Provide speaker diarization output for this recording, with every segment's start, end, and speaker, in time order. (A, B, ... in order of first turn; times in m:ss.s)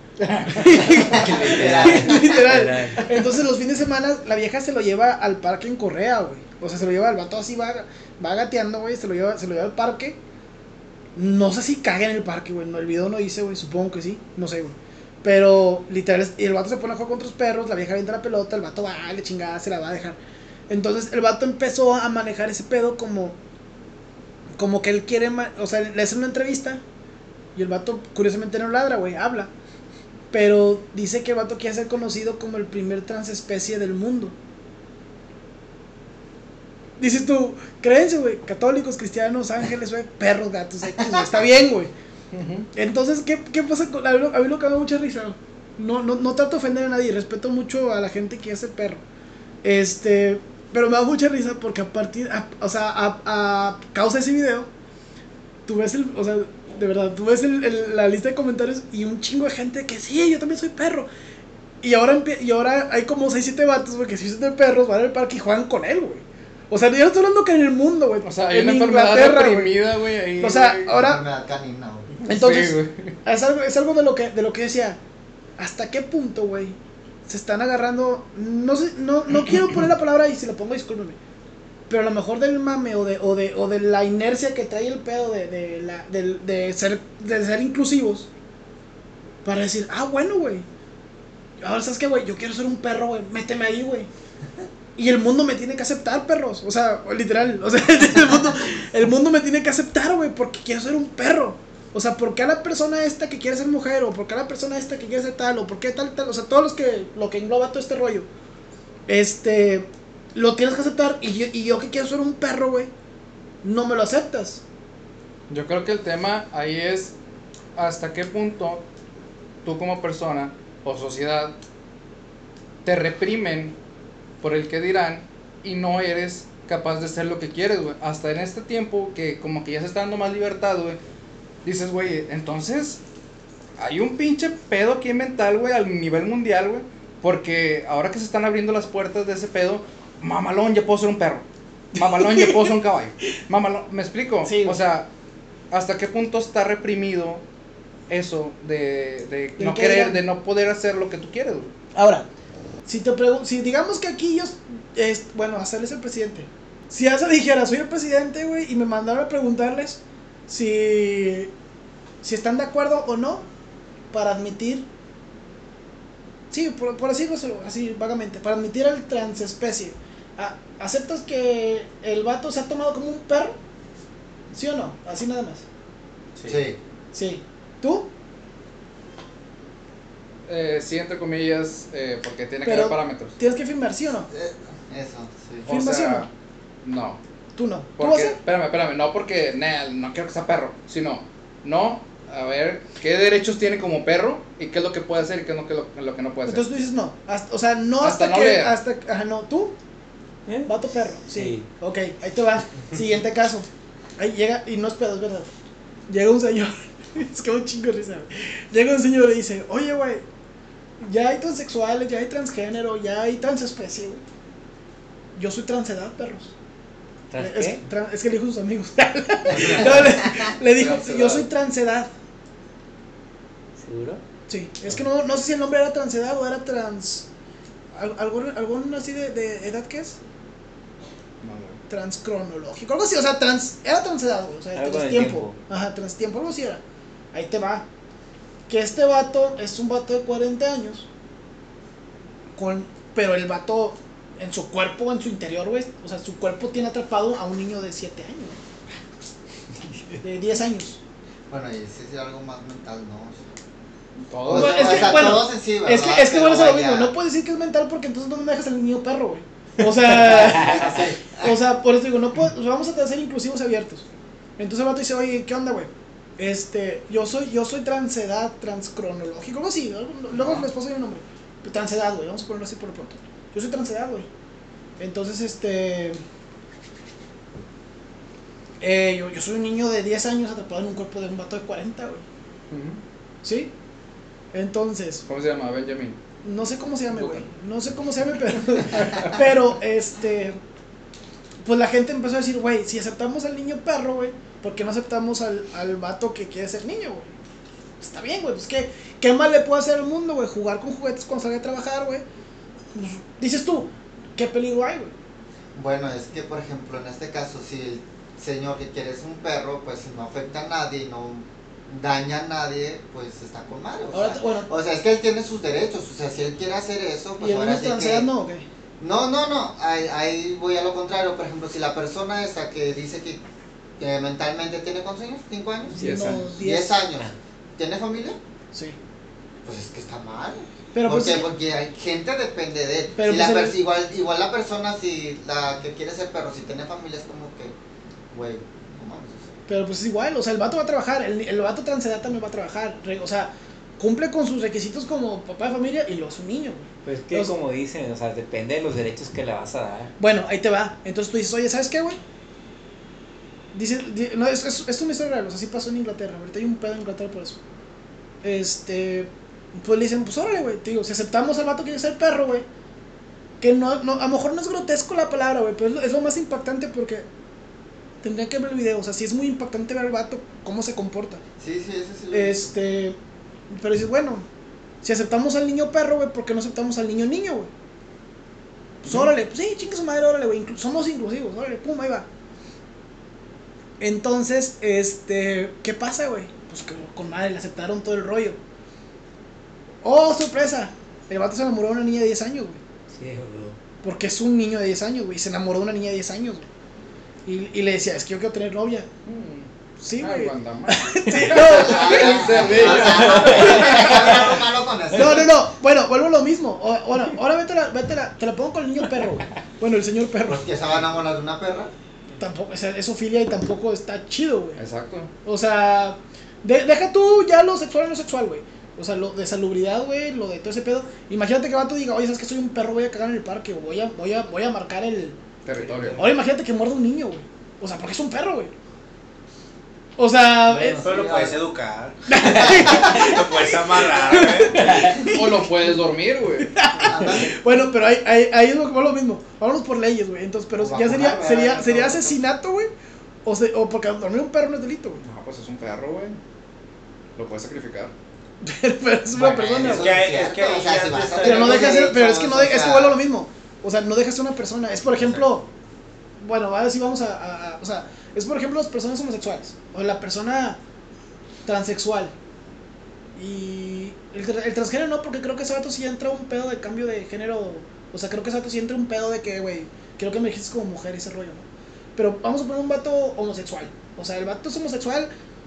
0:00.2-0:01.9 A
0:00.4-0:10.2 B
0:01.1-0:03.1 C
0:01.2-0:02.5 D
0:11.2-0:23.4 B
0:24.6-0:26.8 B
0:27.6-0:29.5 B
0:30.3-0:34.4 B
0:37.0-0:41.9 B
0:42.3-0:42.7 A
0:42.8-0:49.0 B
0:49.6-0:54.7 B
0:55.7-1:01.1 B
1:01.8-1:09.8 B
1:08.2-1:11.0 A
1:10.4-1:11.2 B
1:10.9-1:12.1 D
1:12.2-1:15.0 B
1:12.2-1:13.1 A
1:15.6-1:21.2 B
1:21.9-1:28.3 B
1:29.4-1:30.7 B
1:31.6-1:34.1 B
1:35.0-1:48.3 B
1:49.1-1:52.9 B
1:53.6-1:54.6 B
1:55.5-1:57.1 A
1:57.8-1:58.8 A
1:59.6-2:01.5 A
2:02.8-2:03.8 A
2:04.4-2:11.0 A
2:11.6-2:13.0 A
2:13.8-2:21.4 A
2:22.0-2:25.1 A
2:22.0-2:22.7 B
2:24.4-2:24.8 B
2:25.7-2:27.4 A
2:28.1-2:31.7 A
2:29.6-2:30.2 B
2:32.0-2:32.3 B
2:32.9-2:41.5 B
2:42.2-2:43.5 B
2:44.1-2:44.8 B
2:46.5-2:53.6 B
2:54.5-2:55.6 B
2:56.4-2:56.6 E
2:56.4-2:56.8 D
2:57.1-2:58.1 B
3:00.5-3:03.4 A
3:02.6-3:04.3 B
3:04.3-3:05.7 D
3:05.7-3:06.3 A
3:05.7-3:06.3 B
3:06.8-3:07.2 A
3:07.6-3:08.4 B
3:08.0-3:16.6 A
3:16.5-3:19.7 B
3:18.0-3:18.8 A
3:20.5-3:20.7 C
3:20.7-3:25.5 B
3:21.3-3:21.7 C
3:26.1-3:30.2 B
3:31.0-3:34.2 B
3:35.4-3:36.5 B
3:37.3-3:37.8 C
3:37.4-3:42.1 B
3:40.7-3:41.5 A
3:43.8-3:44.2 C
3:44.5-3:47.3 B
3:47.9-3:50.2 B
3:51.4-3:51.8 A
3:51.9-3:56.8 B
3:54.7-3:55.6 C
3:57.3-3:57.9 B
3:58.7-4:01.1 B
4:02.6-4:08.6 B
4:10.2-4:11.0 B
4:11.5-4:13.6 D
4:14.2-4:15.4 A
4:14.4-4:17.1 D
4:14.5-4:24.0 B
4:20.5-4:21.6 D
4:24.6-4:34.3 B
4:30.3-4:30.7 A
4:35.0-4:36.2 B
4:38.8-4:42.2 B
4:42.7-4:43.0 A
4:43.4-4:43.7 B
4:44.5-4:45.2 B
4:45.3-4:46.2 A
4:46.4-4:50.6 B
4:47.1-4:47.5 A
4:48.9-4:49.3 A
4:51.6-4:57.3 B
4:58.0-5:02.2 B
5:02.9-5:05.1 B
5:05.7-5:18.3 D
5:14.1-5:14.7 B
5:17.4-5:18.7 B
5:19.0-5:23.4 D
5:24.0-5:28.4 D
5:25.9-5:27.1 B
5:26.0-5:26.5 A
5:28.7-5:29.0 B
5:29.6-5:37.7 D
5:30.9-5:31.5 B
5:33.2-5:33.8 B
5:38.3-5:39.6 D
5:39.7-5:47.5 B
5:47.0-5:50.1 C
5:50.2-5:52.2 B
5:53.7-5:57.6 B
5:58.4-6:02.7 B
6:03.6-6:07.2 B
6:08.2-6:11.4 B
6:11.6-6:12.7 D
6:12.3-6:13.2 B
6:13.7-6:14.5 B
6:15.0-6:17.7 B
6:19.0-6:22.3 B
6:24.0-6:28.6 B
6:30.0-6:32.8 B
6:33.1-6:33.8 C
6:34.0-6:36.7 B
6:37.5-6:39.1 B
6:39.3-6:44.3 A
6:40.0-6:44.4 B
6:41.6-6:45.5 D
6:42.9-6:44.4 C
6:45.1-6:50.7 B
6:50.5-6:51.9 D
6:52.4-6:54.8 B
6:54.8-6:55.3 A
6:55.4-7:05.4 B
7:05.6-7:06.2 A
7:05.8-7:06.3 E
7:06.1-7:08.7 B
7:10.2-7:11.1 B
7:10.7-7:11.6 D
7:10.9-7:15.1 E
7:12.3-7:15.6 B
7:15.2-7:16.7 A
7:16.7-7:22.9 B
7:16.9-7:17.6 D
7:20.8-7:22.4 D
7:23.4-7:25.2 B
7:25.2-7:26.4 A
7:27.4-7:28.1 A
7:28.6-7:30.2 B
7:29.3-7:30.0 A
7:29.8-7:33.2 D
7:29.9-7:32.0 E
7:31.4-7:35.7 B
7:36.4-7:40.8 B
7:41.7-7:42.3 B
7:43.4-7:55.3 B